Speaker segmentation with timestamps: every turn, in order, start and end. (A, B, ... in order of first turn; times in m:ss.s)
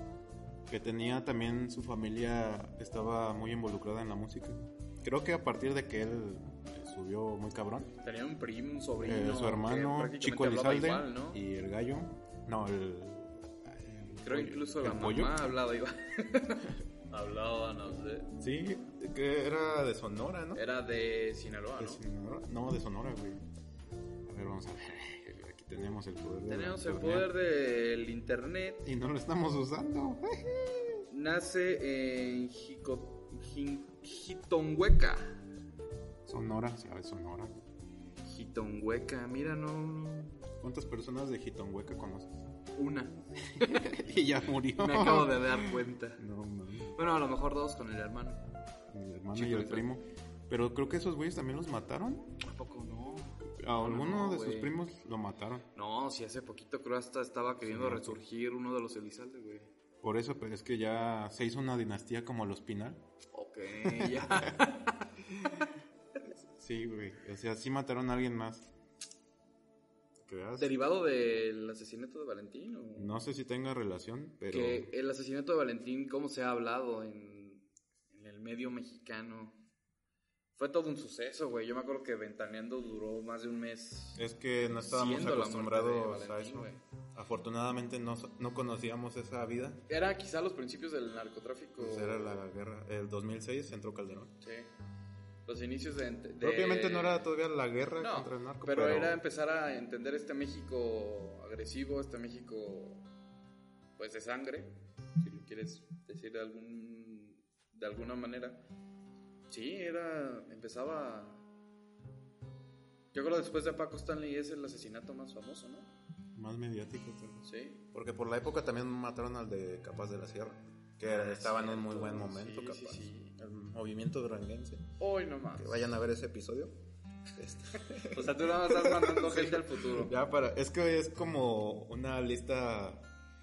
0:00.7-0:07.9 A
0:08.0-0:11.4 B
0:09.0-0:15.5 A
0:14.2-0:18.3 B
0:18.4-0:20.6 A
0:20.5-0:22.0 B
0:21.8-0:23.4 A
0:24.3-0:27.3 A
0:26.5-0:28.8 B
0:28.8-0:31.0 A
0:31.1-0:35.4 B
0:36.2-0:37.6 A
0:38.2-0:40.5 B
0:40.6-0:42.4 A
0:42.8-0:44.0 B
0:43.5-0:46.9 A
0:44.8-0:46.2 B
0:46.9-0:48.4 B
0:48.9-0:52.4 A
0:49.3-0:49.9 B
0:52.4-0:54.7 B
0:53.4-0:55.6 A
0:55.7-0:59.7 B
0:57.6-0:58.2 A
1:00.0-1:03.0 A
1:03.3-1:05.1 B
1:03.8-1:04.6 A
1:05.3-1:05.6 A
1:06.5-1:08.7 A
1:10.2-1:10.7 A
1:10.6-1:13.1 B
1:13.0-1:14.9 A
1:14.5-1:19.6 B
1:20.6-1:24.2 B
1:24.2-1:29.8 A
1:24.8-1:26.8 B
1:29.9-1:32.4 B
1:31.8-1:34.3 A
1:34.4-1:34.7 B
1:35.4-1:37.3 B
1:36.4-1:39.2 A
1:38.0-1:43.0 B
1:44.0-1:48.6 B
1:49.5-1:51.4 B
1:53.1-1:55.9 B
1:56.3-2:04.9 A
1:57.4-1:57.8 B
2:01.0-2:03.3 B
2:05.0-2:05.9 B
2:05.6-2:06.7 A
2:07.3-2:13.0 A
2:08.0-2:10.1 B